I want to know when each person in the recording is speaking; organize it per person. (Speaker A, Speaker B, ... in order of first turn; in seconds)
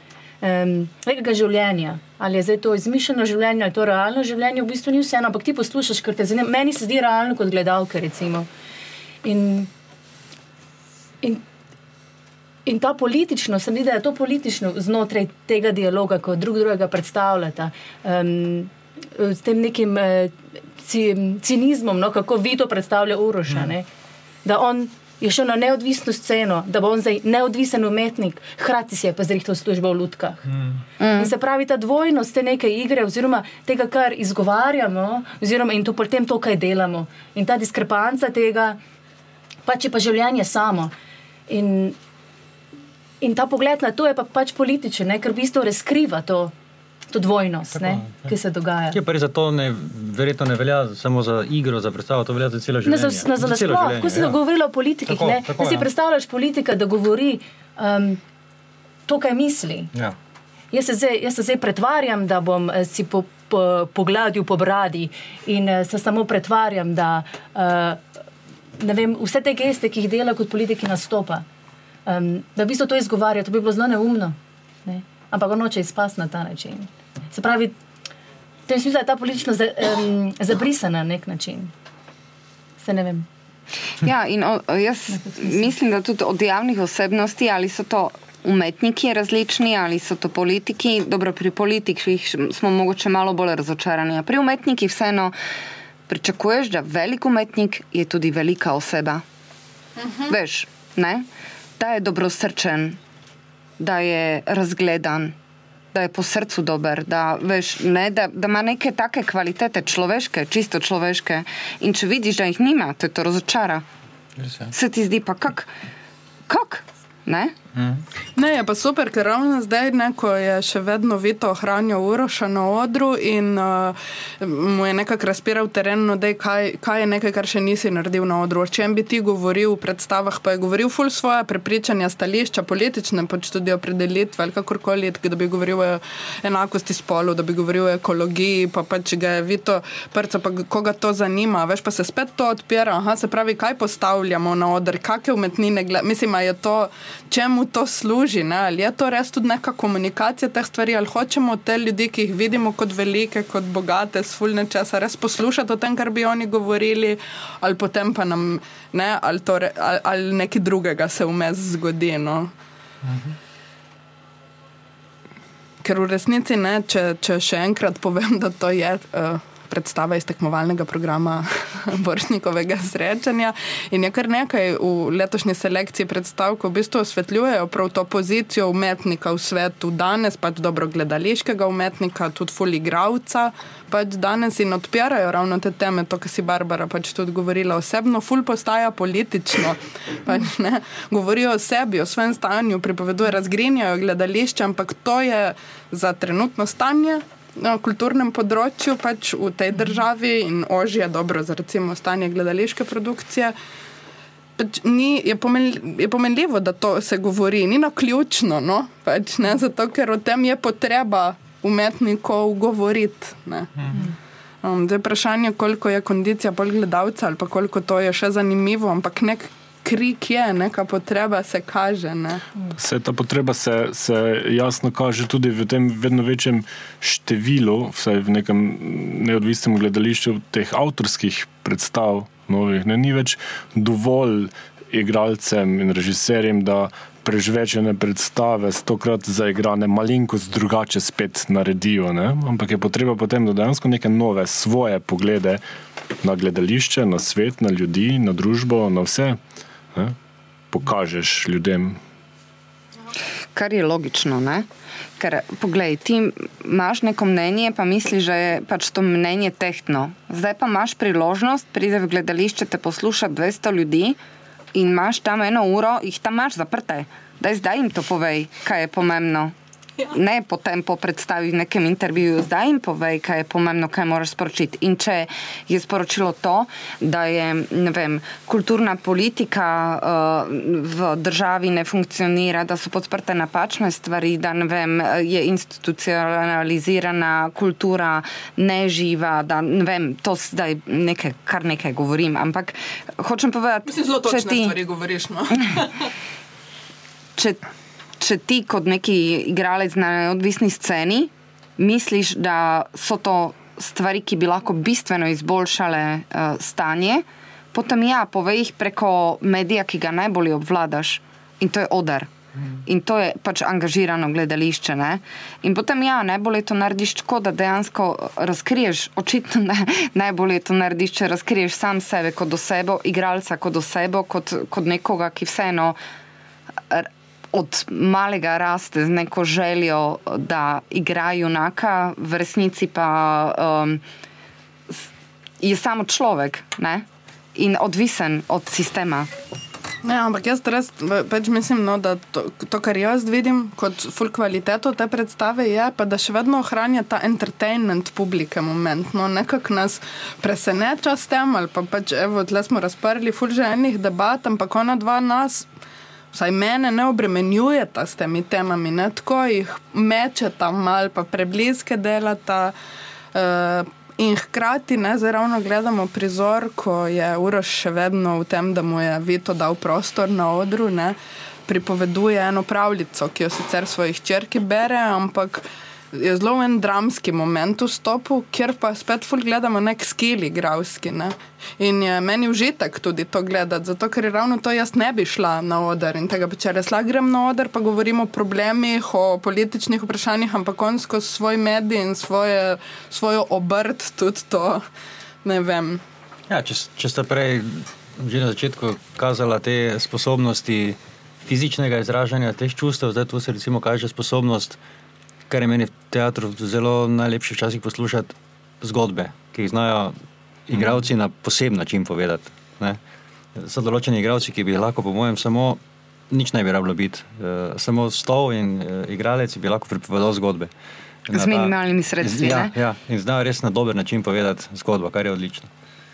Speaker A: 0.4-8.5, 9.2-9.7, 12.7-23.9, 24.4-30.4, 31.2-38.8, 39.6-40.9, 41.5-42.0, 43.2-46.5, 47.1-49.0, 52.8-58.2, 59.1-59.9, 60.7-68.0, 68.8-71.4, 72.0-77.7, 78.7-81.7, 82.8-83.3, 85.1-85.7
Speaker B: 30.5-30.8, 47.7-48.3, 48.9-54.4, 55.1-55.9, 114.4-114.7, 117.8-118.0, 396.5-404.8, 405.5-410.1, 410.7-413.0, 413.6-415.8, 416.3-420.7, 421.3-425.7
Speaker C: 31.0-31.3, 84.0-95.3, 96.1-99.2, 100.3-101.2, 101.8-103.0, 103.8-105.3, 105.9-113.8, 114.7-115.7, 116.5-117.5, 253.5-254.7, 255.2-264.2, 264.7-269.5, 270.1-294.8, 297.4-297.6, 298.2-312.3, 312.8-326.0, 326.9-334.0, 335.6-339.3, 421.3-422.7
Speaker D: 100.0-100.4, 118.3-162.5, 165.8-203.5, 204.6-213.7, 214.6-222.4, 293.8-295.9, 340.0-355.7, 356.3-362.7, 363.3-394.8, 395.4-396.0
Speaker E: 222.8-245.6, 246.2-249.4, 250.7-252.0